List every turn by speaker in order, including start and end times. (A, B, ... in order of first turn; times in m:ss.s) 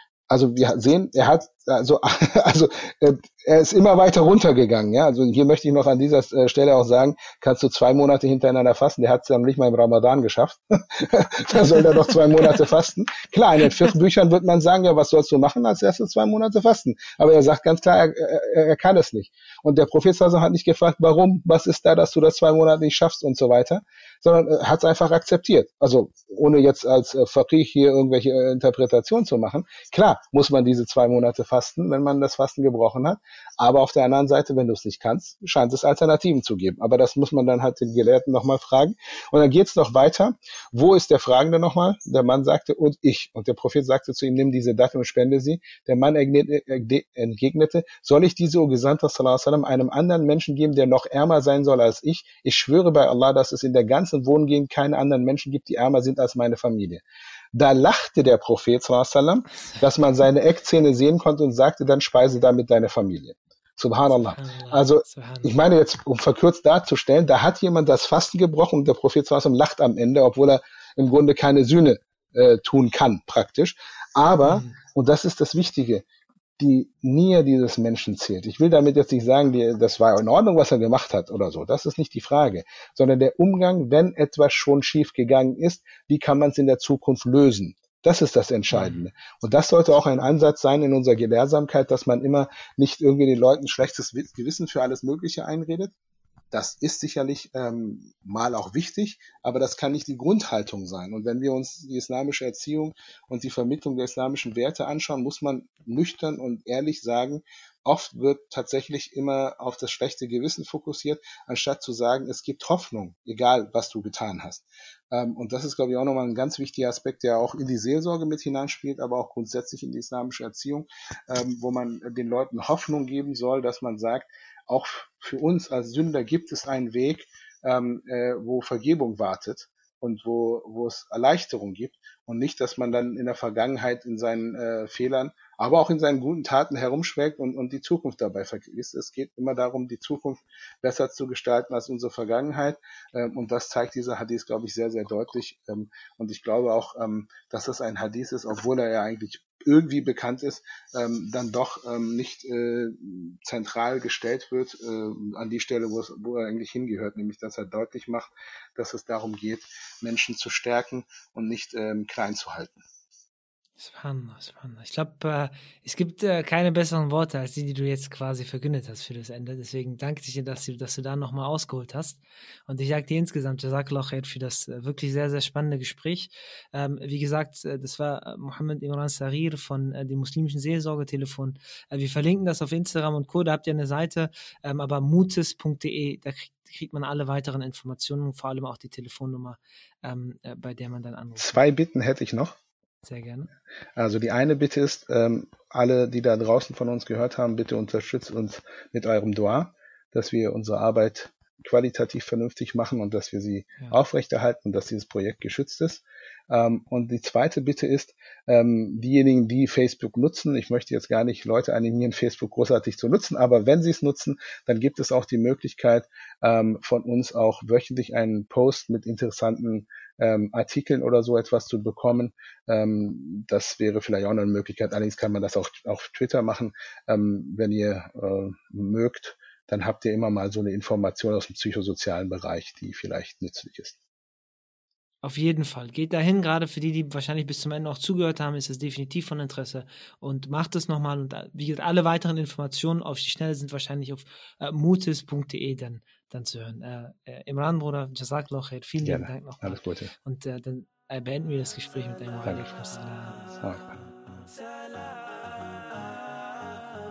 0:00.3-1:16.0 A
1:04.0-1:05.6 B
1:14.4-1:14.8 B
1:16.6-1:35.9 A
1:28.7-1:29.1 B
1:36.5-2:42.8 A
2:43.8-3:11.6 B
3:11.4-3:12.6 A
3:13.0-3:13.5 B
3:14.0-3:54.0 A
3:55.2-4:13.6 B
4:09.0-4:10.1 A
4:12.4-4:12.7 A
4:13.6-4:14.0 A